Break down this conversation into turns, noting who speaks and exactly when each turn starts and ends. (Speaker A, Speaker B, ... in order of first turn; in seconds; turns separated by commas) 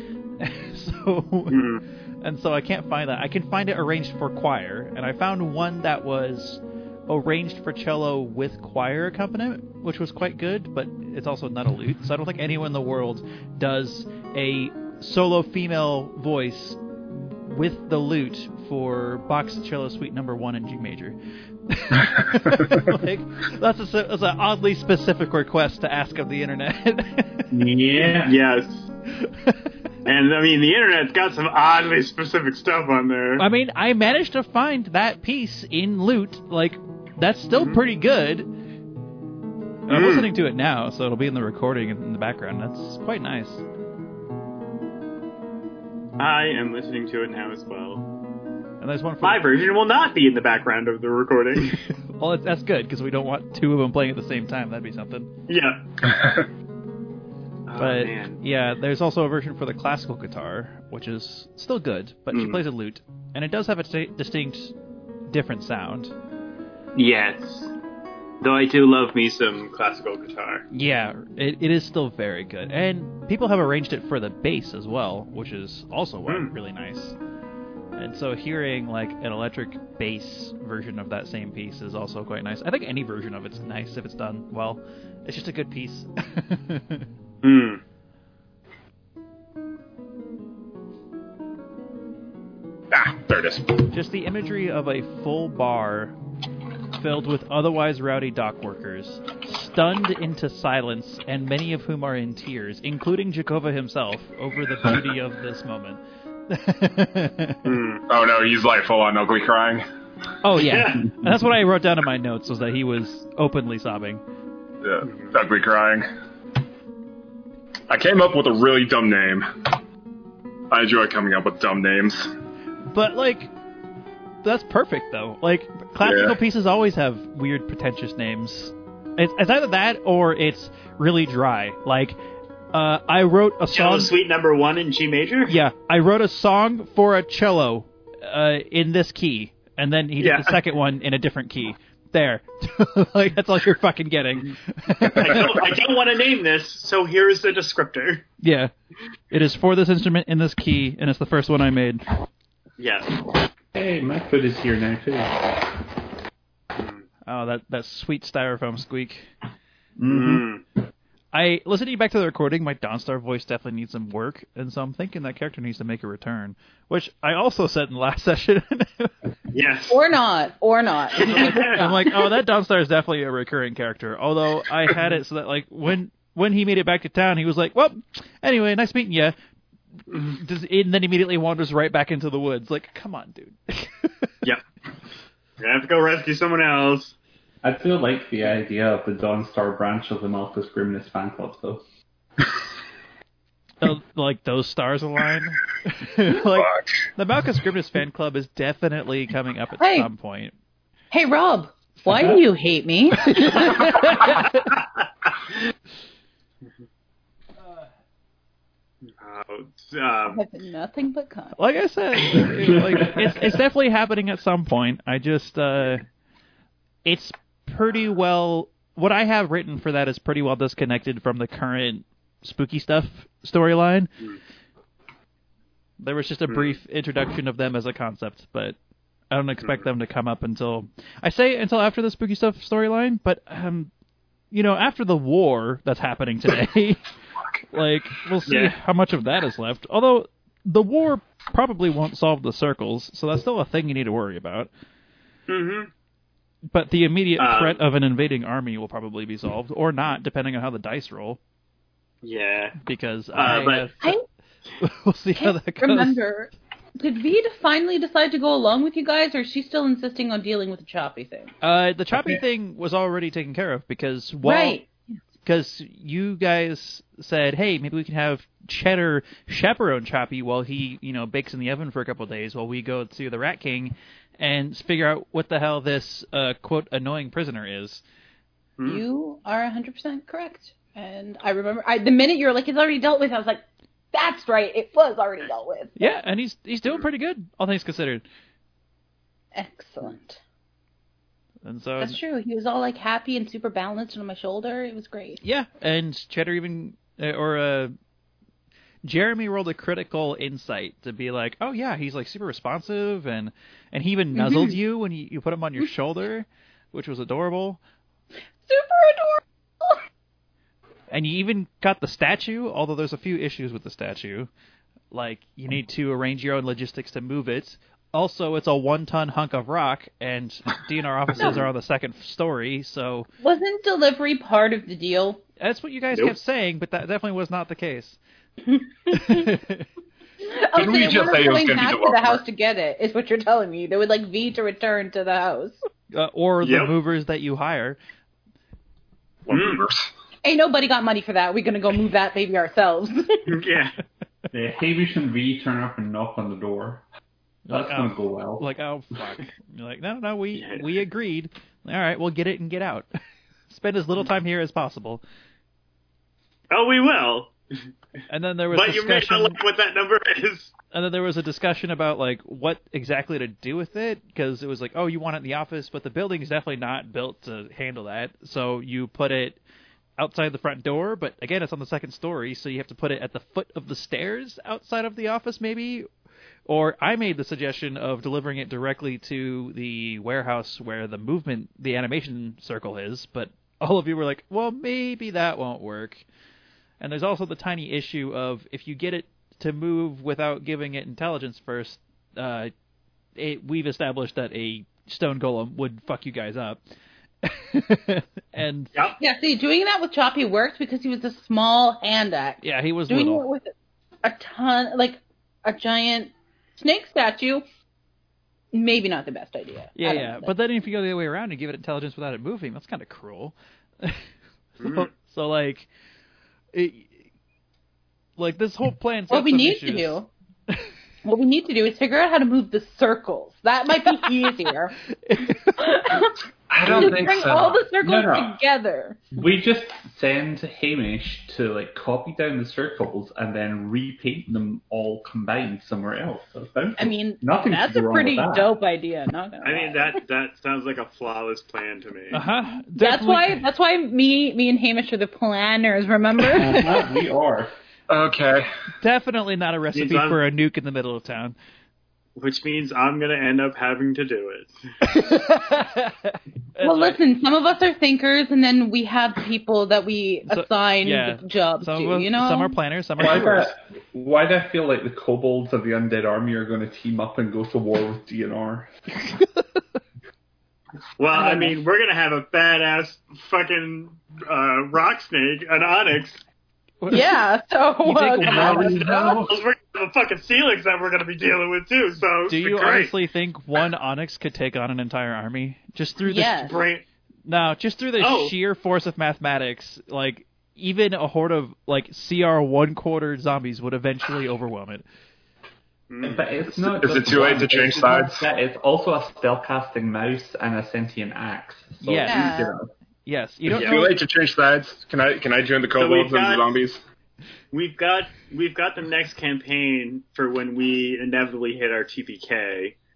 Speaker A: 0.4-1.6, Speaker B: 1.5-1.8, Speaker A: 2.2-21.2, Speaker A: 21.7-27.5, Speaker C: 27.5-28.3, Speaker B: 28.2-28.9, Speaker A: 29.1-29.6, Speaker B: 30.1-33.4, Speaker A: 33.4-38.5, Speaker B: 37.5-37.8, Speaker B: 39.9-40.3, Speaker A: 39.9-43.6, Speaker B: 46.2-48.1, Speaker A: 48.8-49.5, Speaker B: 49.2-51.8, Speaker A: 51.7-55.3, Speaker B: 55.5-55.8, Speaker D: 56.1-56.4, Speaker B: 57.7-58.4, Speaker A: 57.8-64.7, Speaker B: 62.3-62.6, Speaker A: 65.3-66.1, Speaker B: 67.0-67.7, Speaker B: 68.4-70.7, Speaker A: 70.7-77.2, Speaker B: 76.3-76.5, Speaker A: 78.0-87.1, Speaker B: 87.4-87.8, Speaker D: 92.9-93.8, Speaker A: 93.9-96.2, Speaker A: 97.0-107.7, Speaker B: 107.7-108.0, Speaker D: 108.1-109.8, Speaker A: 110.4-114.2, Speaker B: 110.6-111.0, Speaker D: 114.8-116.1, Speaker B: 115.0-115.4, Speaker D: 117.9-119.6, Speaker D: 120.7-122.3, Speaker A: 122.9-123.5, Speaker A: 124.4-132.2, Speaker D: 126.0-126.4, Speaker A: 132.7-134.1, Speaker B: 133.7-135.6, Speaker A: 135.5-145.6, Speaker B: 140.2-140.6, Speaker B: 145.2-148.3, Speaker A: 148.4-148.7, Speaker A: 149.3-152.0, Speaker B: 152.8-153.2, Speaker C: 153.7-155.7, Speaker B: 156.8-157.0, Speaker A: 157.3-159.3, Speaker C: 160.0-160.4, Speaker B: 160.1-160.6, Speaker A: 161.3-169.1, Speaker B: 169.5-170.0, Speaker E: 169.9-172.2, Speaker B: 171.2-171.9, Speaker A: 171.3-179.3, Speaker B: 180.1-180.4, Speaker A: 180.2-184.3, Speaker B: 185.6-187.2, Speaker C: 187.6-191.8, Speaker A: 193.8-200.6, Speaker D: 196.5-196.9, Speaker E: 199.8-200.1, Speaker E: 201.1-204.3, Speaker A: 203.5-204.7, Speaker B: 209.1-210.4, Speaker E: 210.3-211.6, Speaker A: 211.6-216.1, Speaker C: 212.9-213.4, Speaker A: 217.1-224.1, Speaker A: 226.0-228.8, Speaker B: 226.5-226.8, Speaker A: 229.3-233.9, Speaker A: 234.5-237.1, Speaker A: 237.7-244.7, Speaker B: 238.5-238.7, Speaker B: 245.5-245.9, Speaker A: 246.7-251.4, Speaker B: 247.4-247.8, Speaker B: 252.2-252.8, Speaker A: 252.8-254.2, Speaker B: 253.3-253.9, Speaker A: 254.8-256.2, Speaker E: 255.4-261.5, Speaker A: 261.6-264.8, Speaker E: 264.4-264.9, Speaker A: 265.5-278.0, Speaker B: 278.8-279.0, Speaker E: 278.9-286.1, Speaker A: 286.0-288.2, Speaker E: 289.6-290.4, Speaker A: 291.6-292.2, Speaker E: 292.0-295.4, Speaker A: 295.4-297.9, Speaker A: 299.0-307.8, Speaker E: 304.4-304.8, Speaker E: 308.7-310.0, Speaker A: 311.1-314.5, Speaker A: 315.1-323.3, Speaker E: 323.4-325.4, Speaker A: 325.6-328.2, Speaker E: 328.7-329.5, Speaker A: 329.1-329.9, Speaker E: 330.4-335.8, Speaker D: 330.8-332.4, Speaker A: 336.1-338.0, Speaker B: 336.6-336.9, Speaker D: 339.5-340.1, Speaker B: 339.5-339.8, Speaker E: 340.4-343.4, Speaker B: 343.5-344.0, Speaker C: 344.5-347.0, Speaker A: 347.7-353.1, Speaker C: 347.7-348.7, Speaker B: 350.6-350.9, Speaker A: 353.7-355.2, Speaker B: 356.7-357.6, Speaker A: 358.3-359.6, Speaker B: 358.7-360.7, Speaker A: 360.9-369.6, Speaker A: 370.2-376.1, Speaker A: 376.7-386.2, Speaker A: 387.0-392.7, Speaker A: 393.4-396.8, Speaker A: 397.4-398.9, Speaker E: 399.2-403.7, Speaker A: 402.6-403.5, Speaker E: 404.2-407.6, Speaker E: 408.7-410.5, Speaker A: 410.0-414.3, Speaker A: 414.8-415.9, Speaker B: 414.8-415.1, Speaker A: 416.7-417.2, Speaker A: 418.4-420.2, Speaker E: 419.3-420.3, Speaker E: 421.2-425.0, Speaker A: 425.1-425.9, Speaker E: 425.8-426.4, Speaker D: 426.7-427.8, Speaker C: 426.7-428.6, Speaker E: 426.9-429.2, Speaker C: 429.3-438.7, Speaker E: 437.0-440.2, Speaker B: 439.6-442.4, Speaker A: 442.3-443.6, Speaker E: 443.0-447.1, Speaker C: 446.4-447.7, Speaker D: 448.1-448.7, Speaker A: 449.0-451.6, Speaker B: 449.9-450.4, Speaker B: 452.4-454.8, Speaker A: 455.0-457.2, Speaker E: 456.8-462.8, Speaker A: 460.5-463.7, Speaker C: 463.2-468.9, Speaker A: 469.2-469.6, Speaker B: 471.2-476.4, Speaker E: 471.4-471.7, Speaker A: 477.0-477.4, Speaker E: 477.1-479.0, Speaker A: 478.0-479.0, Speaker B: 478.5-483.1, Speaker C: 478.7-479.1, Speaker A: 482.5-486.6, Speaker E: 486.2-486.8, Speaker B: 486.6-487.0, Speaker A: 487.5-495.0, Speaker B: 488.2-488.6, Speaker B: 496.1-496.5, Speaker C: 496.2-502.9, Speaker D: 496.8-498.4, Speaker A: 502.0-502.6, Speaker E: 502.2-502.7, Speaker A: 503.3-504.1, Speaker B: 503.7-504.1, Speaker D: 503.7-507.0, Speaker B: 506.0-506.7, Speaker B: 507.7-513.0